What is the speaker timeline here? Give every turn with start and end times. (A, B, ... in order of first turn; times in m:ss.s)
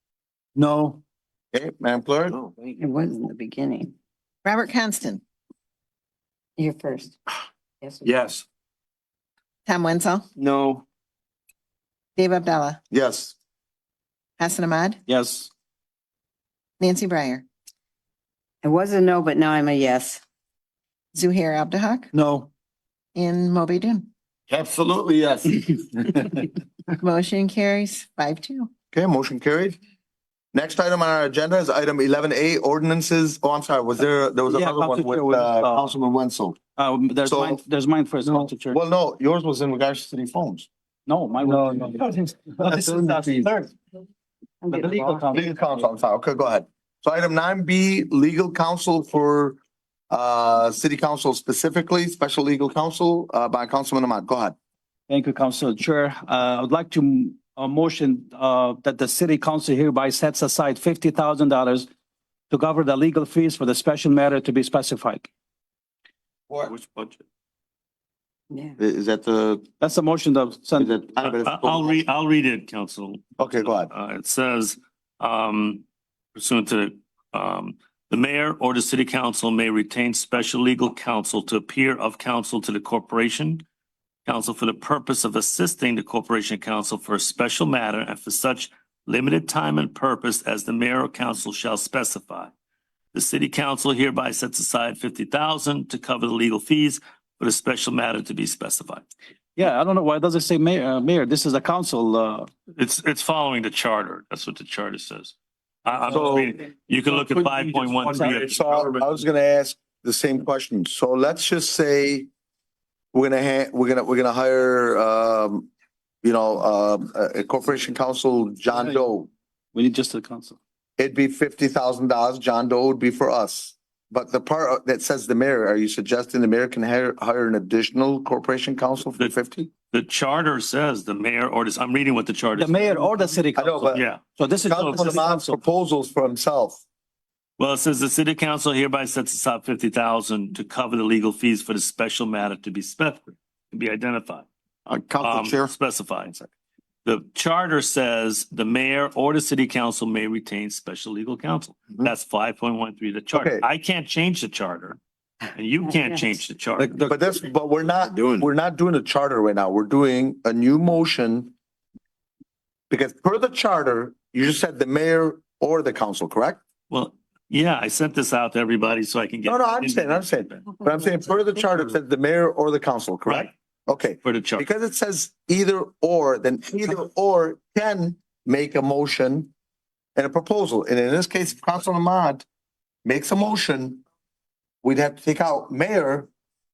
0:00.6-0:01.0 A
0:01.5-0:02.4 B
0:02.8-0:03.9 C
0:04.4-0:05.2 D
0:06.6-0:07.1 C
0:09.7-0:10.2 D
0:12.2-0:12.8 D
0:12.9-0:13.4 B
0:14.4-0:15.0 D
0:15.1-0:15.5 A
0:16.8-0:17.4 D
0:18.6-0:20.2 C
0:21.1-0:22.1 D
0:22.1-0:22.5 A
0:23.2-0:24.1 D
0:24.5-0:26.3 E
0:27.0-0:28.7 D
0:28.9-0:29.8 B
0:30.5-0:36.6 B
0:34.5-0:35.9 A
0:36.8-0:38.8 A
0:37.2-0:37.6 B
0:38.2-0:40.7 B
0:41.1-0:42.0 A
0:41.4-0:43.7 B
0:42.6-0:43.5 A
0:44.7-0:45.9 A
0:45.3-0:49.6 B
0:50.1-0:54.6 B
0:55.1-1:01.9 A
1:02.5-1:05.3 A
1:08.8-1:09.6 B
1:09.8-1:10.9 A
1:10.8-1:12.0 B
1:11.2-1:15.8 F
1:13.4-1:13.9 B
1:16.4-1:23.6 F
1:24.3-1:32.5 F
1:33.1-1:39.1 F
1:39.6-1:42.5 A
1:42.7-1:45.3 F
1:45.8-1:49.1 F
1:46.1-1:46.5 B
1:47.2-1:48.3 A
1:48.1-1:52.3 B
1:53.1-1:55.7 B
1:56.2-1:59.3 B
1:59.7-2:00.6 A
2:01.0-2:09.7 B
2:09.9-2:13.2 F
2:12.6-2:15.6 A
2:13.5-2:14.0 B
2:13.9-2:15.2 F
2:14.7-2:16.8 B
2:17.6-2:24.5 F
2:24.9-2:25.7 E
2:25.2-2:26.4 F
2:27.0-2:35.0 F
2:33.3-2:33.7 B
2:35.5-2:37.1 F
2:37.0-2:41.5 B
2:42.9-2:46.6 B
2:46.9-2:50.8 F
2:49.4-2:59.5 B
2:53.3-2:53.5 F
2:54.2-2:54.7 F
3:00.2-3:02.5 B
3:03.0-3:04.0 B
3:04.8-3:06.3 B